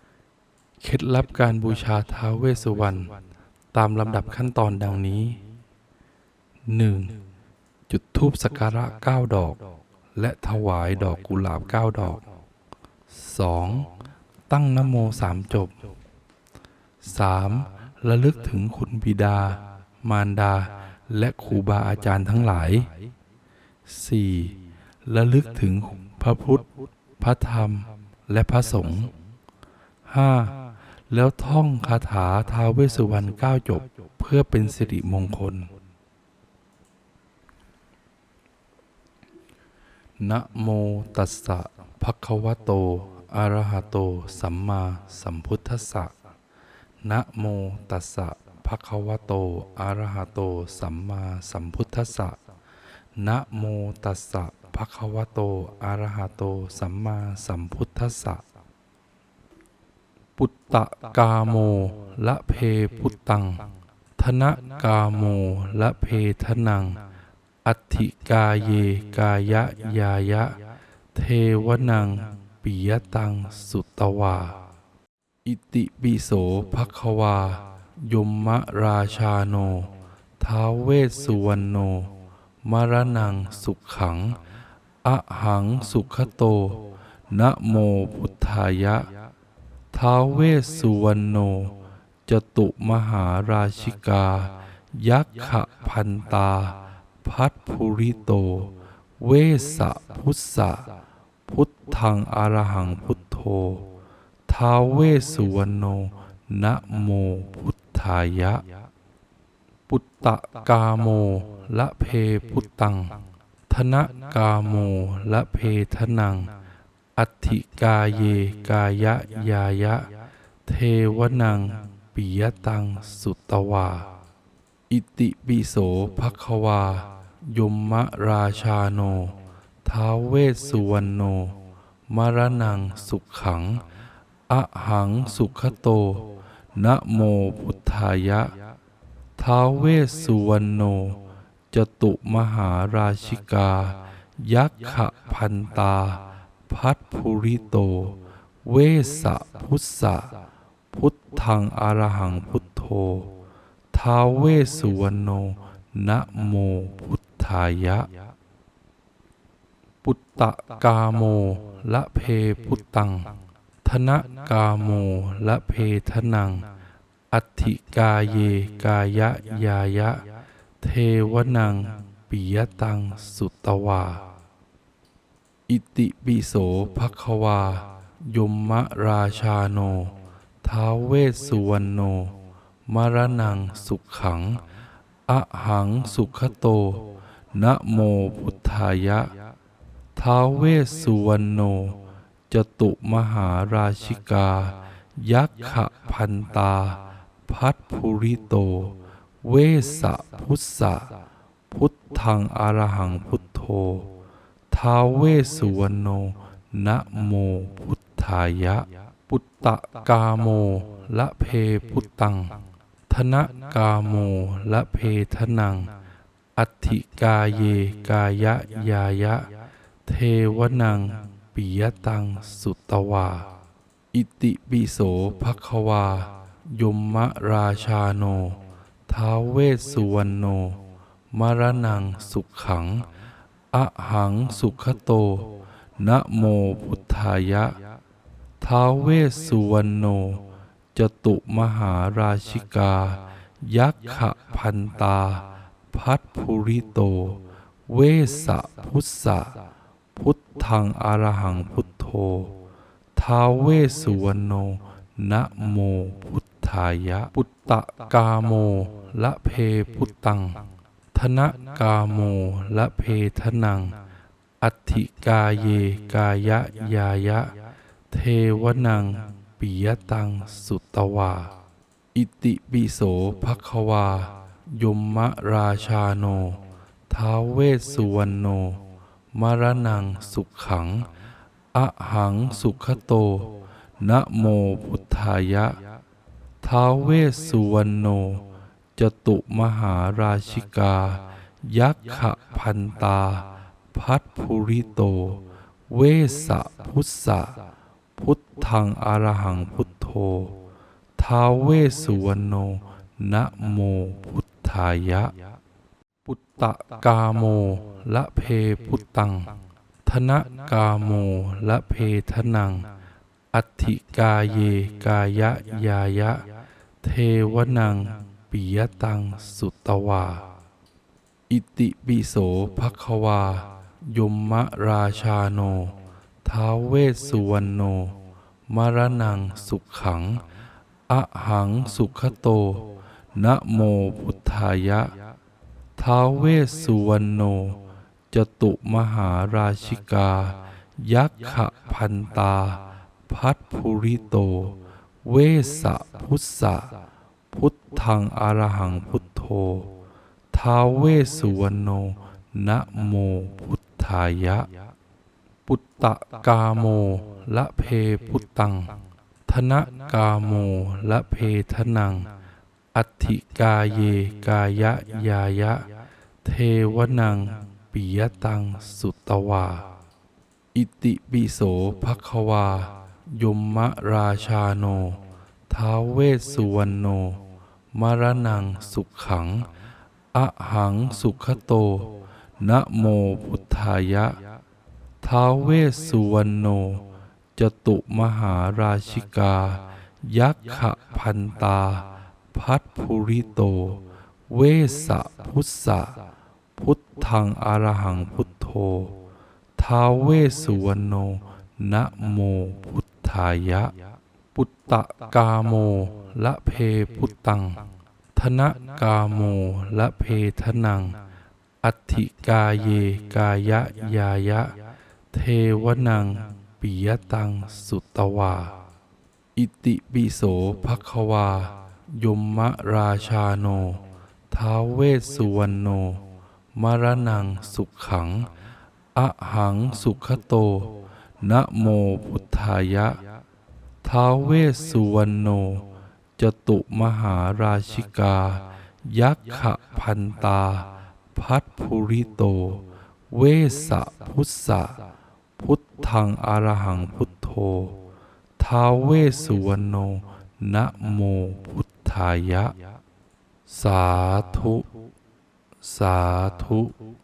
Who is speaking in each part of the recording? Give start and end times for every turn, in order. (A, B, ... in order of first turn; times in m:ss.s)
0:00.8-0:03.2 A
0:03.7-0:05.4 A
0:06.7-0:07.2 A
0:07.9-0:09.6 A
0:10.1-0:12.2 A
0:13.1-0:13.9 A
0:14.5-0:15.9 A
0:17.0-0:22.9 A
0:23.8-0:29.1 A
0:30.0-0:35.7 A
0:40.2-0:46.1 A
0:47.0-0:52.4 A
0:53.2-0:58.4 A
1:00.4-1:07.0 A
1:07.6-1:10.6 A
1:11.1-1:14.6 A
1:15.4-1:24.4 A
1:25.0-1:29.1 A
1:29.9-1:40.9 A
1:41.5-1:43.9 A
1:44.5-1:48.6 A
1:49.9-1:56.5 A
1:57.2-2:00.1 A
2:00.6-2:04.1 A
2:04.9-2:13.8 A
2:14.5-2:18.5 A
2:19.4-2:30.4 A
2:30.9-2:33.3 A
2:33.9-2:38.1 A
2:40.0-2:46.7 A
2:47.3-2:50.2 A
2:50.8-2:54.2 A
2:55.7-3:04.6 A
3:05.3-3:09.3 A
3:10.2-3:21.1 A
3:21.7-3:24.1 A
3:24.7-3:35.9 A
3:36.6-3:39.5 A
3:40.0-3:43.5 A
3:44.1-3:53.1 A
3:53.7-3:57.8 A
3:58.6-4:09.6 A
4:10.1-4:12.6 A
4:13.1-4:24.0 A
4:24.6-4:27.5 A
4:28.1-4:31.5 A
4:32.1-4:38.8 A
4:39.3-4:41.1 A
4:41.7-4:45.8 A
4:46.6-4:48.4 A
4:49.0-4:57.6 A
4:58.2-5:00.6 A
5:01.2-5:05.3 A
5:06.2-5:12.9 A
5:13.5-5:16.5 A
5:17.0-5:20.4 A
5:21.5-5:30.4 A
5:31.1-5:35.1 A
5:36.0-5:46.9 A
5:47.5-5:49.9 A
5:50.5-5:54.7 A
5:55.6-6:02.3 A
6:02.9-6:05.9 A
6:06.4-6:09.8 A
6:10.7-6:19.7 A
6:20.3-6:24.4 A
6:25.2-6:27.0 A
6:27.6-6:36.2 A
6:36.8-6:39.2 A
6:39.8-6:43.9 A
6:44.5-6:51.2 A
6:51.8-6:54.8 A
6:55.3-6:58.7 A
6:59.6-7:08.5 A
7:09.1-7:13.2 A
7:14.0-7:25.0 A
7:25.6-7:28.0 A
7:28.6-7:32.7 A
7:33.7-7:34.9 A
7:35.8-7:36.9 A